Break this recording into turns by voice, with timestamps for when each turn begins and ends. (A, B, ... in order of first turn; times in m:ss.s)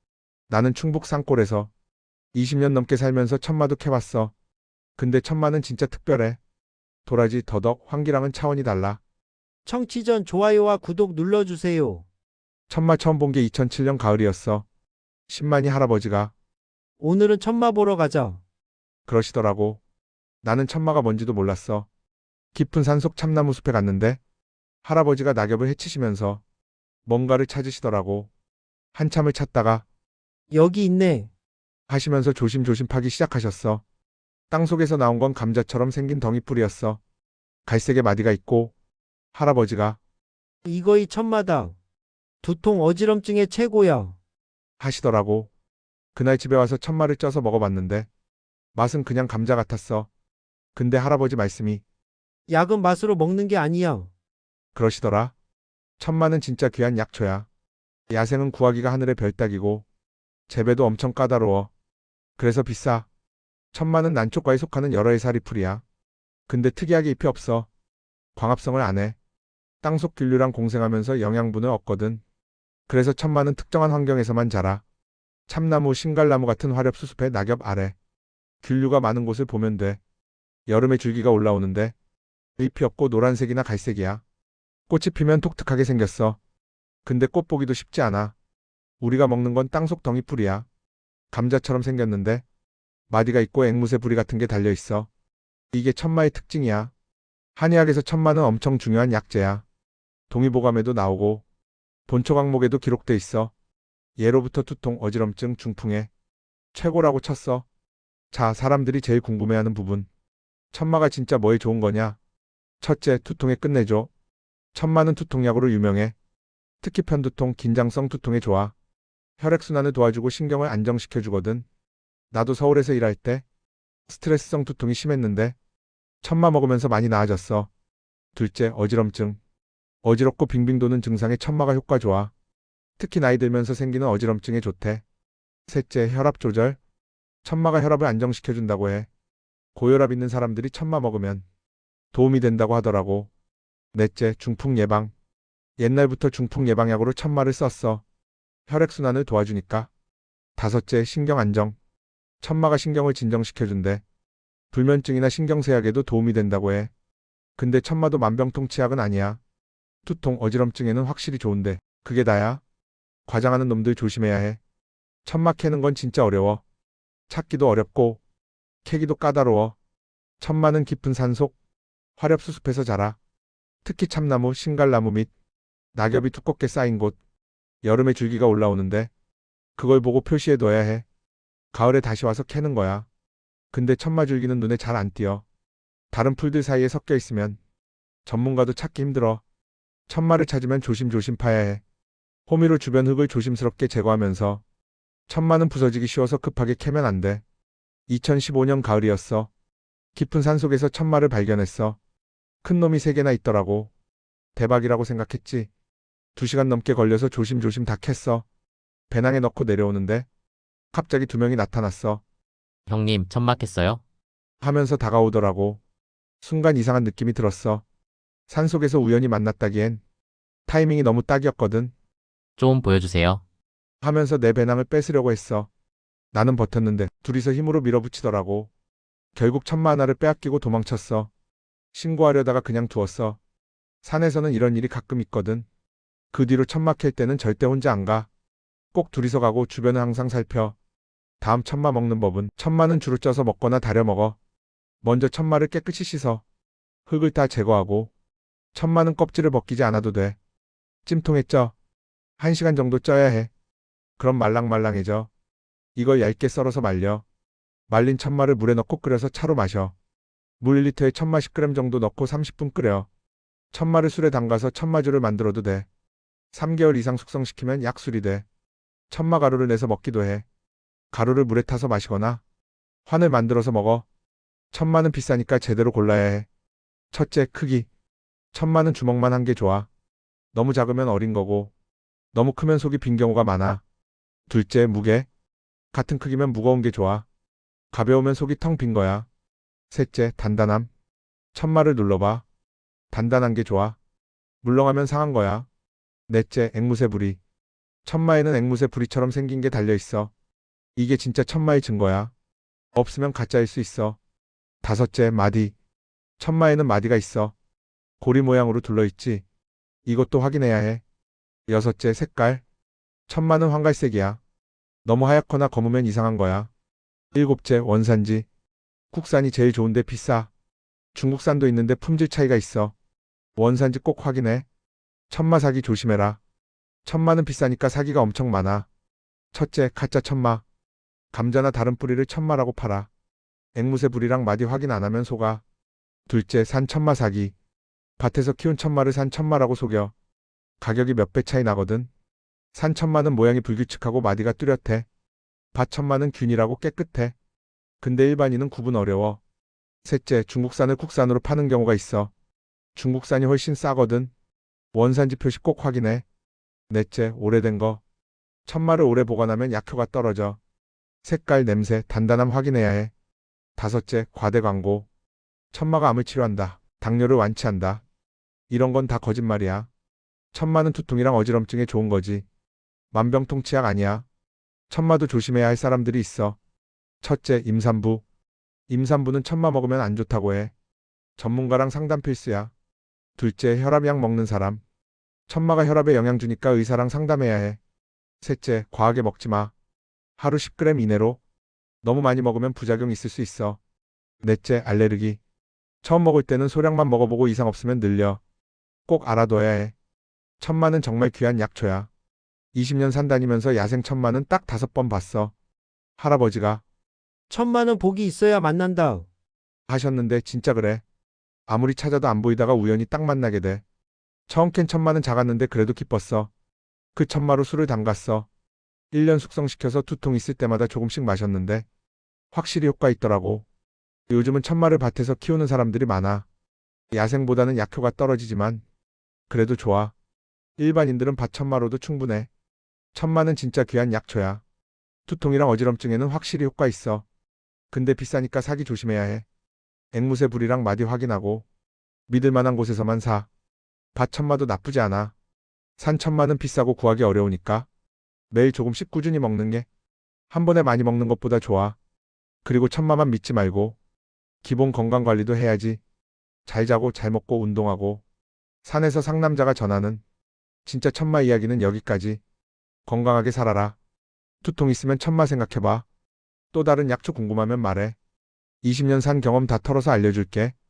0:00.5-0:01.7 A
0:02.3-0:04.3 A
0:05.0-0:06.4 A
0:07.0-0:09.0 A
0:09.7-0:12.0 B
0:12.7-0:14.7 A
0:15.3-0:16.3 A
0:17.0-0:18.4 B
0:19.1-0:19.8 A
0:20.4-0:21.9 A
0:22.5-0:24.2 A
0:24.8-0:26.4 A
0:27.1-0:28.3 A
0:28.9-0:29.8 A
0:30.5-0:31.3 B
0:31.9-0:33.8 A
0:34.5-0:37.0 A
0:37.7-0:38.7 A
0:39.3-0:40.0 A
0:40.7-0:41.8 B
0:42.4-0:44.2 B
0:44.8-0:45.5 A
0:46.2-0:48.1 A
0:48.8-0:50.1 A
0:50.8-0:51.8 A
0:52.5-0:54.1 B
0:54.7-0:55.3 A
0:56.0-0:57.5 A
0:58.1-0:59.8 A
1:00.5-1:01.7 A
1:02.4-1:03.1 A
1:03.7-1:05.8 A
1:06.5-1:07.7 A
1:08.4-1:09.2 A
1:09.8-1:12.2 A
1:12.9-1:14.8 A
1:15.5-1:18.0 A
1:18.6-1:20.0 A
1:20.7-1:21.9 A
1:22.6-1:24.2 A
1:24.9-1:26.4 A
1:27.0-1:28.3 A
1:29.0-1:30.7 A
1:31.3-1:32.4 A
1:33.1-1:35.1 A
1:35.7-1:36.9 A
1:37.6-1:39.6 A
1:40.3-1:41.4 A
1:42.1-1:43.5 A
1:44.2-1:46.1 A
1:46.7-1:47.7 A
1:48.3-1:50.1 A
1:50.7-1:52.2 A
1:52.8-1:54.1 A
1:54.7-1:56.2 A
1:56.8-1:58.7 A
1:59.4-2:01.6 A
2:02.3-2:03.4 A
2:04.1-2:05.6 A
2:06.2-2:07.7 A
2:08.4-2:09.4 A
2:10.0-2:12.3 A
2:13.0-2:15.0 A
2:15.7-2:16.8 A
2:17.4-2:19.1 A
2:19.8-2:21.4 A
2:22.1-2:23.3 A
2:23.9-2:25.1 A
2:25.8-2:28.0 A
2:28.7-2:29.9 A
2:30.6-2:31.8 A
2:32.4-2:34.0 A
2:34.7-2:36.9 A
2:37.6-2:39.4 A
2:40.0-2:42.6 A
2:43.3-2:44.6 A
2:45.2-2:46.6 A
2:47.3-2:48.2 A
2:48.8-2:49.8 A
2:50.4-2:51.5 A
2:52.2-2:53.2 A
2:53.8-2:55.3 A
2:55.9-2:57.2 A
2:57.8-2:59.1 A
2:59.8-3:01.0 A
3:01.7-3:03.1 A
3:03.7-3:05.4 A
3:06.1-3:07.6 A
3:08.2-3:09.4 A
3:10.1-3:11.8 A
3:12.5-3:14.6 A
3:15.3-3:17.4 A
3:18.1-3:19.5 A
3:20.2-3:22.0 A
3:22.6-3:23.9 A
3:24.6-3:25.7 A
3:26.4-3:28.5 A
3:29.1-3:30.3 A
3:30.9-3:32.2 A
3:32.9-3:34.0 C
3:34.6-3:35.8 A
3:36.4-3:37.8 A
3:38.5-3:40.0 A
3:40.7-3:41.9 A
3:42.6-3:43.4 C
3:44.0-3:45.7 A
3:46.3-3:48.7 A
3:49.4-3:51.3 A
3:51.9-3:53.4 A
3:54.0-3:55.7 A
3:56.3-3:58.3 A
3:58.9-4:00.8 A
4:01.4-4:04.4 A
4:05.0-4:06.4 A
4:07.1-4:08.1 A
4:08.7-4:10.4 A
4:11.0-4:11.7 A
4:12.4-4:13.5 A
4:14.2-4:15.3 A
4:16.0-4:17.2 A
4:17.9-4:19.9 A
4:20.6-4:23.1 A
4:23.7-4:25.9 A
4:26.5-4:28.4 A
4:29.1-4:30.4 A
4:31.1-4:32.4 A
4:33.1-4:34.1 A
4:34.7-4:36.5 A
4:37.1-4:37.9 A
4:38.5-4:39.9 A
4:40.5-4:41.7 A
4:42.3-4:43.8 A
4:44.5-4:45.3 A
4:45.9-4:47.3 A
4:47.9-4:49.3 A
4:49.9-4:50.9 A
4:51.5-4:52.4 A
4:53.1-4:54.0 A
4:54.6-4:55.7 A
4:56.3-4:57.4 A
4:58.0-5:00.3 A
5:01.0-5:02.3 A
5:02.9-5:04.2 A
5:04.8-5:05.7 A
5:06.4-5:07.5 A
5:08.2-5:09.4 A
5:10.1-5:11.0 A
5:11.7-5:12.6 A
5:13.3-5:14.4 A
5:15.0-5:16.7 A
5:17.3-5:18.5 A
5:19.1-5:20.5 A
5:21.1-5:23.0 A
5:23.6-5:24.7 A
5:25.3-5:26.4 A
5:27.0-5:28.9 A
5:29.5-5:30.6 A
5:31.3-5:33.1 A
5:33.8-5:35.6 A
5:36.3-5:37.5 A
5:38.2-5:40.1 A
5:40.8-5:42.1 A
5:42.7-5:45.1 A
5:45.7-5:47.4 A
5:48.0-5:49.4 A
5:50.0-5:52.3 A
5:53.0-5:54.3 A
5:54.9-5:56.2 A
5:56.9-5:58.0 A
5:58.7-6:00.6 A
6:01.2-6:03.1 A
6:03.8-6:05.1 A
6:05.7-6:08.0 A
6:08.7-6:09.9 A
6:10.5-6:12.4 A
6:13.1-6:14.3 A
6:14.9-6:16.6 A
6:17.2-6:18.2 A
6:18.9-6:20.7 A
6:21.4-6:22.7 A
6:23.4-6:24.8 A
6:25.5-6:27.8 A
6:28.4-6:29.7 A
6:30.4-6:31.4 A
6:32.0-6:33.8 A
6:34.4-6:35.4 A
6:36.0-6:38.4 A
6:39.1-6:39.9 A
6:40.6-6:42.1 A
6:42.7-6:45.5 A
6:46.2-6:46.8 A
6:47.5-6:49.3 B
6:49.9-6:51.0 A
6:51.7-6:53.8 A
6:54.5-6:56.5 A
6:57.2-6:58.5 A
6:59.1-7:01.8 A
7:02.5-7:03.7 A
7:04.3-7:06.5 A
7:07.1-7:08.8 A
7:09.5-7:10.1 A
7:10.8-7:12.5 A
7:13.1-7:14.6 A
7:15.3-7:17.3 A
7:17.9-7:19.4 A
7:20.1-7:21.7 A
7:22.3-7:23.5 A
7:24.1-7:25.3 A
7:26.0-7:27.9 A
7:28.5-7:29.9 A
7:30.5-7:32.0 A
7:32.6-7:34.0 A
7:34.6-7:36.0 A
7:36.6-7:38.2 A
7:38.8-7:40.2 A
7:40.8-7:42.4 A
7:43.1-7:44.0 A
7:44.6-7:46.1 A
7:46.7-7:48.2 A
7:48.8-7:50.7 A